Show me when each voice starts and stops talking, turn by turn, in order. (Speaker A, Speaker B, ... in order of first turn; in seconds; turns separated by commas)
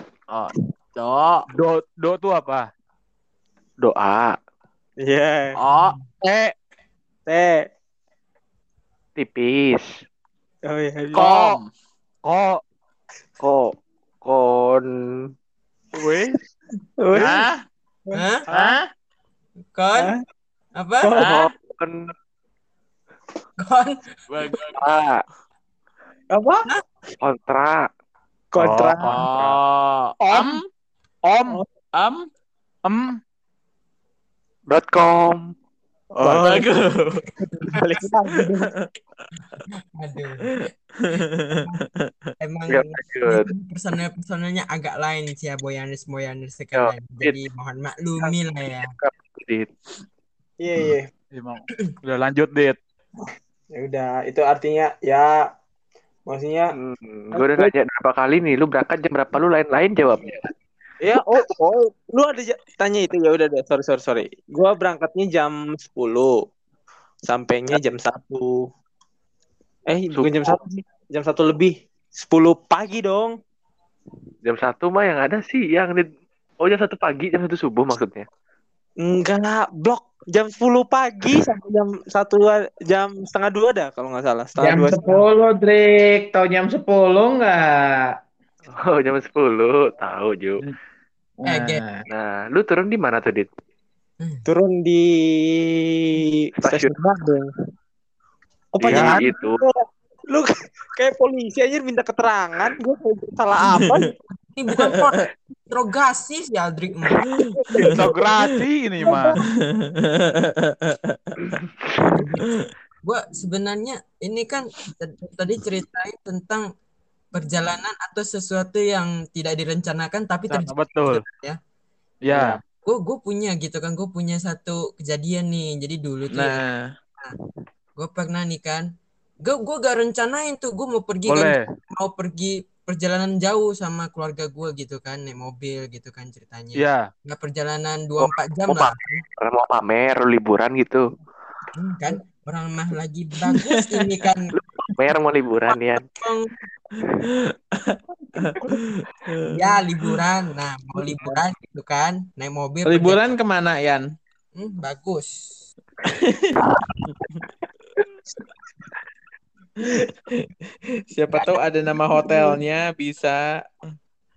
Speaker A: 0.3-1.4, Speaker B: 1.5-2.6, Speaker C: 3.8-4.4, Speaker D: 5.0-5.6, Speaker A: 5.5-5.9, Speaker B: 6.2-6.5, Speaker D: 7.3-7.6, Speaker C: 9.2-10.0, Speaker D: 10.6-11.3, Speaker B: 11.1-11.6, Speaker A: 11.1-11.7, Speaker B: 12.2-12.6, Speaker C: 13.4-15.3, Speaker B: 15.9-16.4, Speaker D: 17.0-17.4, Speaker A: 17.1-17.6, Speaker D: 18.0-18.7, Speaker E: 18.1-18.4, Speaker A: 18.5-18.9, Speaker E: 19.7-20.1, Speaker D: 19.9-20.2, Speaker E: 20.8-21.1, Speaker A: 21.1-21.5, Speaker C: 21.1-22.1, Speaker E: 23.6-24.1, Speaker A: 24.3-24.8, Speaker C: 24.7-25.2, Speaker D: 26.3-26.7, Speaker C: 27.2-27.9, Speaker D: 28.5-29.1, Speaker B: 28.6-29.6, Speaker A: 29.0-30.6, Speaker B: 30.2-30.6, Speaker B: 31.3-31.6, Speaker A: 31.9-32.3, Speaker B: 32.9-33.2, Speaker C: 34.7-35.5, Speaker D: 36.2-36.7, Speaker A: 36.4-37.2, Speaker D: 37.5-38.7, Speaker A: 38.6-38.9, Speaker E: 39.9-40.4, Speaker A: 40.5-42.3, Speaker E: 42.4-48.9, Speaker C: 42.7-43.5, Speaker C: 46.7-47.4, Speaker C: 48.2-49.7, Speaker D: 50.6-51.1, Speaker B: 51.3-52.8, Speaker D: 53.2-55.3, Speaker D: 56.3-56.7, Speaker C: 56.7-60.5, Speaker D: 57.3-57.7, Speaker D: 61.0-66.3, Speaker D: 67.3-68.6, Speaker D: 69.9-73.3, Speaker C: 70.1-70.6, Speaker C: 74.4-76.1, Speaker C: 76.6-78.3, Speaker D: 79.0-85.2, Speaker A: 84.6-88.0, Speaker C: 88.7-90.6, Speaker A: 91.4-92.0, Speaker E: 91.4-91.8, Speaker C: 92.1-93.5, Speaker D: 94.5-97.5, Speaker C: 96.6-96.9, Speaker D: 98.7-99.8, Speaker C: 98.8-99.6, Speaker B: 98.8-99.2, Speaker D: 100.3-104.1, Speaker E: 104.3-107.3, Speaker A: 107.3-108.4, Speaker D: 107.5-108.0, Speaker B: 107.9-109.4, Speaker D: 109.0-109.4, Speaker A: 109.4-111.5, Speaker C: 111.4-112.0, Speaker E: 112.1-112.4, Speaker E: 113.0-116.7, Speaker E: 117.3-121.6, Speaker B: 120.5-121.2, Speaker B: 122.3-122.6, Speaker E: 122.3-126.6, Speaker A: 126.3-126.9, Speaker E: 128.0-128.8, Speaker E: 129.4-139.2, Speaker B: 131.3-131.6, Speaker B: 136.8-137.0, Speaker C: 138.2-141.1, Speaker E: 141.8-144.5, Speaker A: 143.4-143.7, Speaker C: 144.5-146.1, Speaker E: 146.1-146.5, Speaker A: 147.7-149.6, Speaker E: 149.5-153.2, Speaker A: 152.9-154.0, Speaker E: 154.6-155.3, Speaker A: 156.0-156.5, Speaker A: 157.1-157.4, Speaker A: 159.8-160.5, Speaker A: 161.1-163.4